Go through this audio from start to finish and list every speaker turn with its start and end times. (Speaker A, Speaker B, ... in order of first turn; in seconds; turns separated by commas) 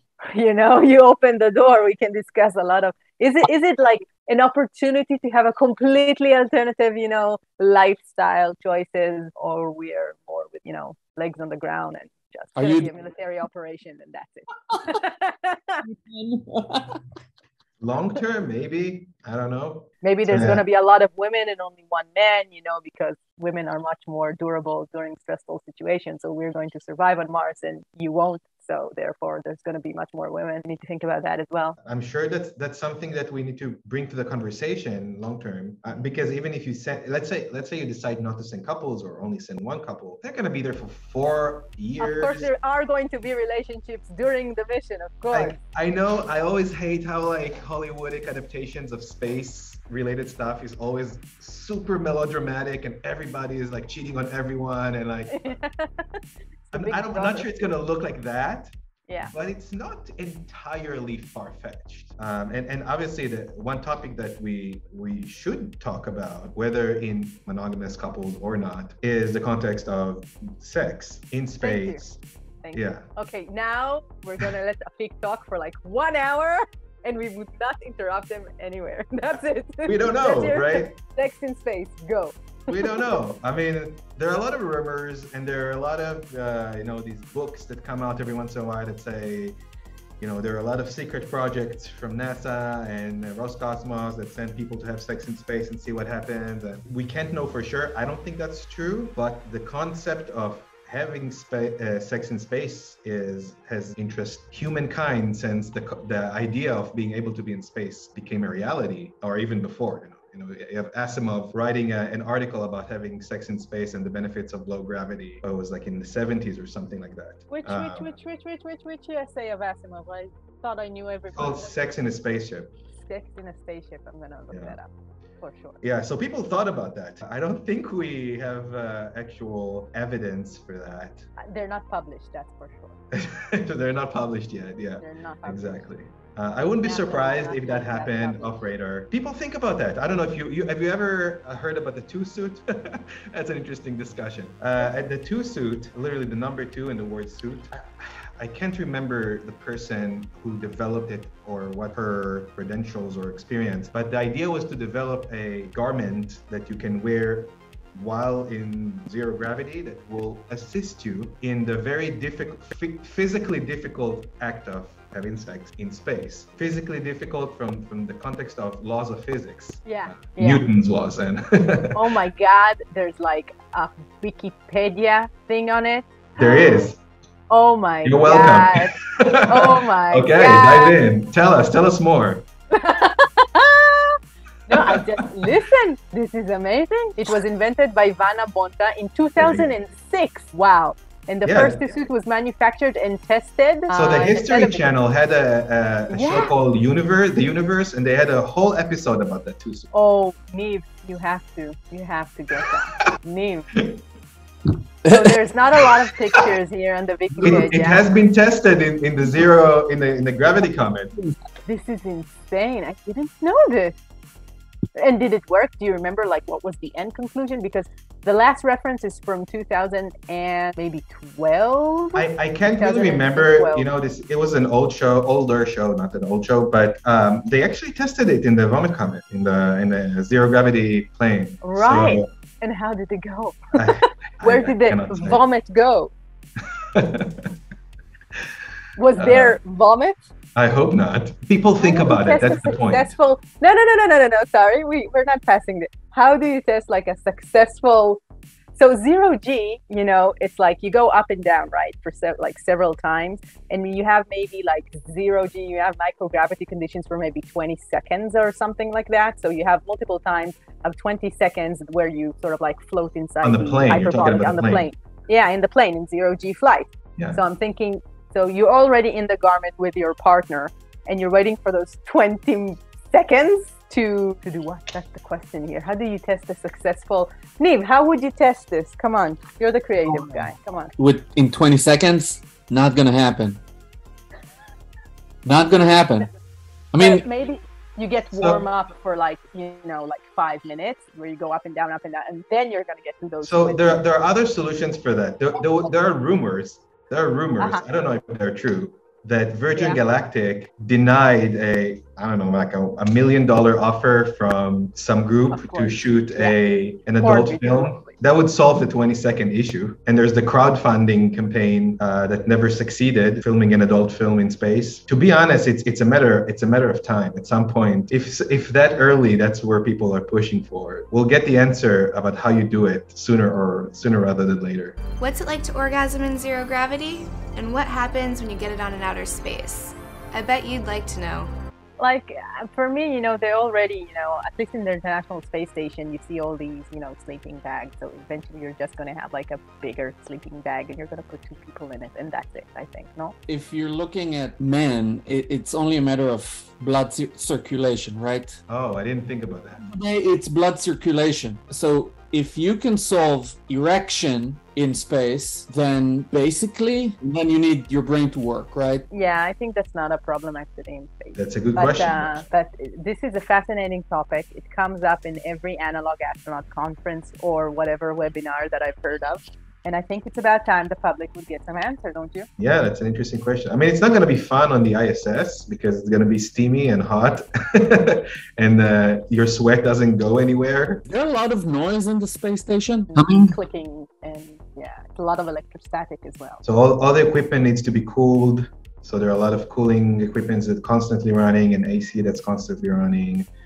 Speaker A: 0.2-15.8, Speaker B: 12.6-12.9, Speaker B: 15.8-17.0, Speaker C: 17.8-20.6, Speaker A: 20.0-31.8, Speaker C: 31.8-42.5, Speaker A: 42.0-45.6, Speaker C: 45.3-55.6, Speaker A: 55.3-57.5, Speaker C: 56.7-58.7, Speaker A: 59.1-59.3, Speaker C: 59.2-72.2, Speaker A: 71.6-72.0, Speaker A: 72.6-83.1, Speaker C: 72.7-73.1, Speaker C: 79.8-80.9, Speaker C: 82.7-89.6, Speaker C: 90.2-118.1, Speaker A: 117.5-121.7, Speaker C: 121.3-122.7, Speaker A: 123.0-124.9, Speaker C: 124.5-124.8, Speaker A: 125.4-125.8, Speaker C: 125.8-131.2, Speaker A: 131.4-133.0, Speaker C: 133.1-172.2, Speaker A: 135.0-135.8, Speaker A: 136.8-138.7, Speaker A: 169.8-170.6, Speaker A: 171.9-176.9, Speaker C: 176.4-177.0, Speaker A: 177.5-181.0, Speaker C: 178.0-182.5, Speaker A: 182.7-194.9, Speaker C: 184.7-185.5, Speaker C: 189.4-189.7, Speaker C: 191.4-192.0, Speaker C: 193.9-199.9, Speaker A: 196.1-196.5, Speaker A: 199.9-203.7, Speaker B: 205.0-205.4, Speaker A: 205.1-208.2, Speaker C: 207.4-211.1, Speaker A: 211.7-213.9, Speaker A: 214.9-223.9, Speaker C: 222.1-232.3, Speaker A: 231.6-236.1, Speaker C: 233.8-235.4, Speaker C: 236.8-237.5, Speaker A: 238.9-240.2, Speaker C: 239.2-239.6, Speaker C: 240.5-243.1, Speaker A: 241.8-248.2, Speaker A: 248.8-280.9, Speaker C: 263.4-264.9, Speaker B: 280.0-283.6, Speaker B: 285.4-286.3, Speaker B: 286.9-287.2, Speaker A: 287.0-294.0, Speaker C: 288.4-288.6, Speaker C: 293.4-325.0, Speaker A: 297.6-297.8, Speaker A: 299.8-300.1, Speaker A: 305.5-306.6, Speaker A: 307.2-308.1, Speaker D: 325.2-331.5, Speaker A: 332.0-343.3, Speaker B: 343.5-348.6, Speaker C: 348.7-349.8, Speaker B: 349.8-359.0, Speaker A: 359.1-372.5, Speaker C: 361.3-362.4, Speaker C: 372.6-381.0, Speaker B: 381.1-383.6, Speaker A: 383.1-386.6, Speaker C: 386.6-393.5